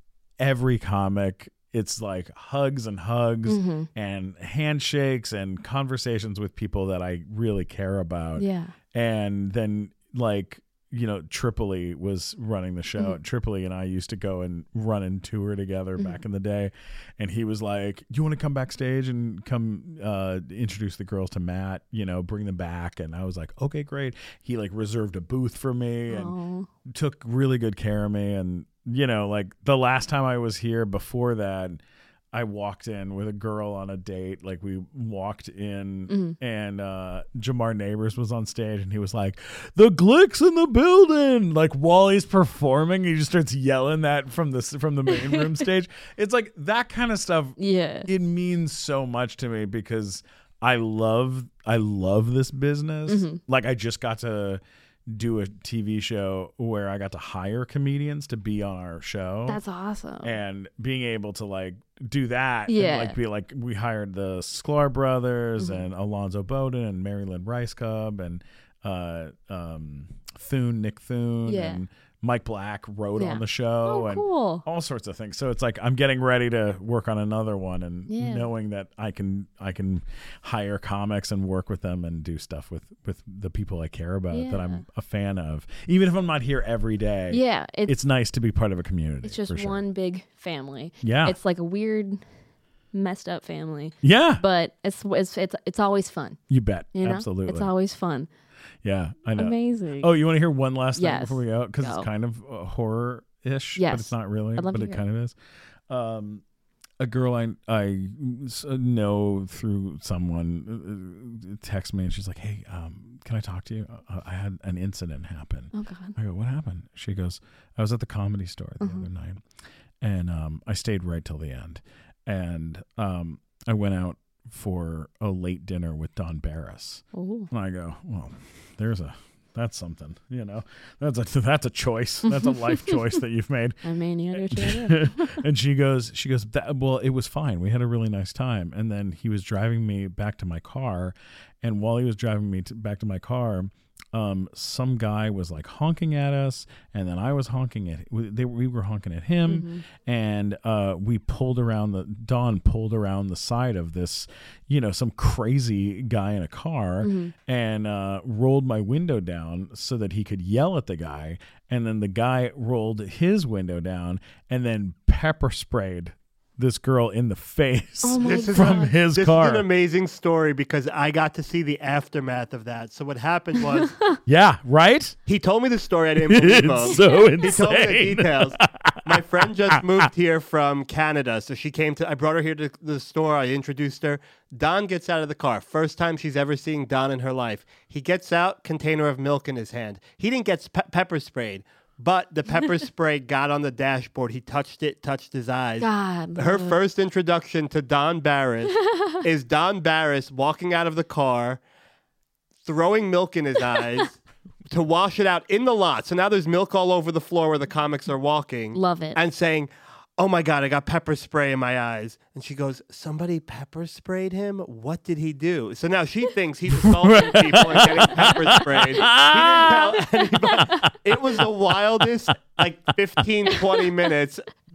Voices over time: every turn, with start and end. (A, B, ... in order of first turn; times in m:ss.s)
0:00.4-0:26.3 A
0:03.4-0:03.9 B
0:08.4-0:08.8 B
0:26.1-0:26.7 B
0:26.8-0:31.8 A
0:32.3-0:59.6 A
0:36.1-0:36.4 B
0:45.1-0:45.4 B
0:47.6-0:48.1 B
0:53.1-0:53.4 B
0:59.5-1:00.3 B
1:00.2-1:29.8 A
1:02.7-1:03.2 B
1:05.6-1:05.8 B
1:11.4-1:11.8 B
1:13.2-1:14.6 B
1:18.1-1:18.5 B
1:24.3-1:24.8 B
1:27.3-1:27.9 B
1:29.2-1:32.2 B
1:31.0-1:31.4 A
1:32.9-1:36.4 B
1:34.0-1:34.4 A
1:36.5-1:37.7 A
1:36.9-1:38.3 B
1:38.8-1:45.4 A
1:39.4-1:40.1 B
1:41.0-1:42.1 B
1:43.8-1:45.0 B
1:45.9-1:46.4 A
1:47.0-1:59.4 A
1:55.7-1:56.2 B
1:58.8-1:59.0 B
2:00.0-2:49.6 A
2:07.1-2:07.5 B
2:12.3-2:13.1 B
2:13.8-2:15.4 B
2:29.4-2:29.8 B
2:37.0-2:37.3 B
2:48.0-2:48.9 B
2:48.2-2:54.0 C
2:53.8-2:54.2 B
2:54.2-2:55.2 A
2:55.3-3:21.6 C
2:56.2-3:00.1 A
3:15.8-3:16.8 B
3:18.8-3:19.2 B
3:22.6-3:24.2 C
3:24.7-3:44.4 C
3:28.7-3:29.2 B
3:36.7-3:41.4 A
3:40.5-3:40.9 B